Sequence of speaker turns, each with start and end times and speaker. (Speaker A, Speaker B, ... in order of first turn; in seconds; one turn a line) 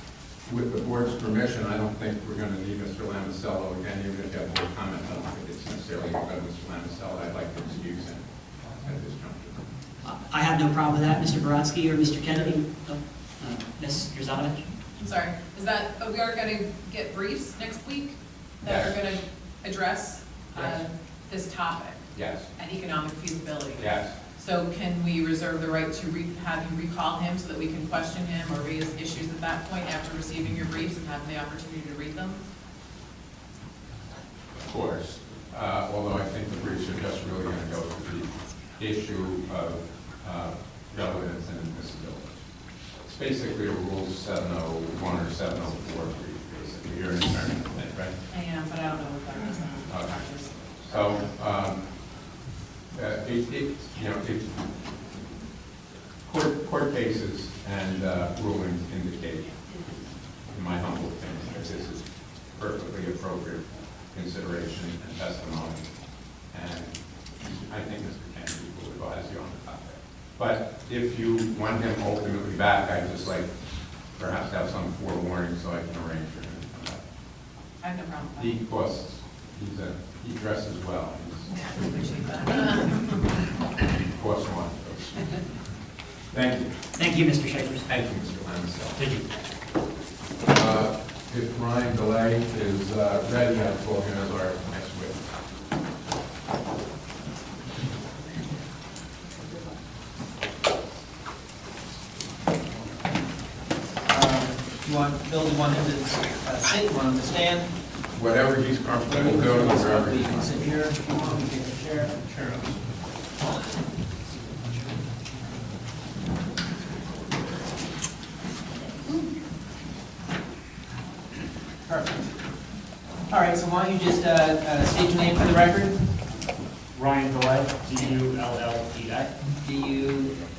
Speaker A: 0.5-9.6
Speaker B: 10.0-14.6
Speaker C: 15.0-22.0
Speaker A: 18.6-18.9
Speaker A: 22.1-22.5
Speaker C: 22.6-32.4
Speaker A: 23.8-24.2
Speaker A: 34.6-48.1
Speaker C: 48.3-51.1
Speaker A: 49.9-50.3
Speaker A: 50.8-51.9
Speaker A: 52.9-54.5
Speaker A: 56.2-59.7
Speaker A: 60.5-65.9
Speaker A: 66.4-73.5
Speaker A: 74.1-77.0
Speaker C: 77.8-78.6
Speaker A: 78.4-81.6
Speaker C: 81.6-83.1
Speaker A: 84.2-85.3
Speaker A: 86.3-86.7
Speaker B: 87.0-87.8
Speaker A: 87.9-89.0
Speaker D: 89.0-89.3
Speaker A: 90.5-95.2
Speaker E: 104.1-107.7
Speaker A: 108.1-110.6
Speaker E: 109.0-112.6
Speaker E: 114.4-114.9
Speaker E: 121.9-122.3
Speaker E: 123.3-126.0
Speaker D: 126.9-129.3
Speaker E: 129.6-130.4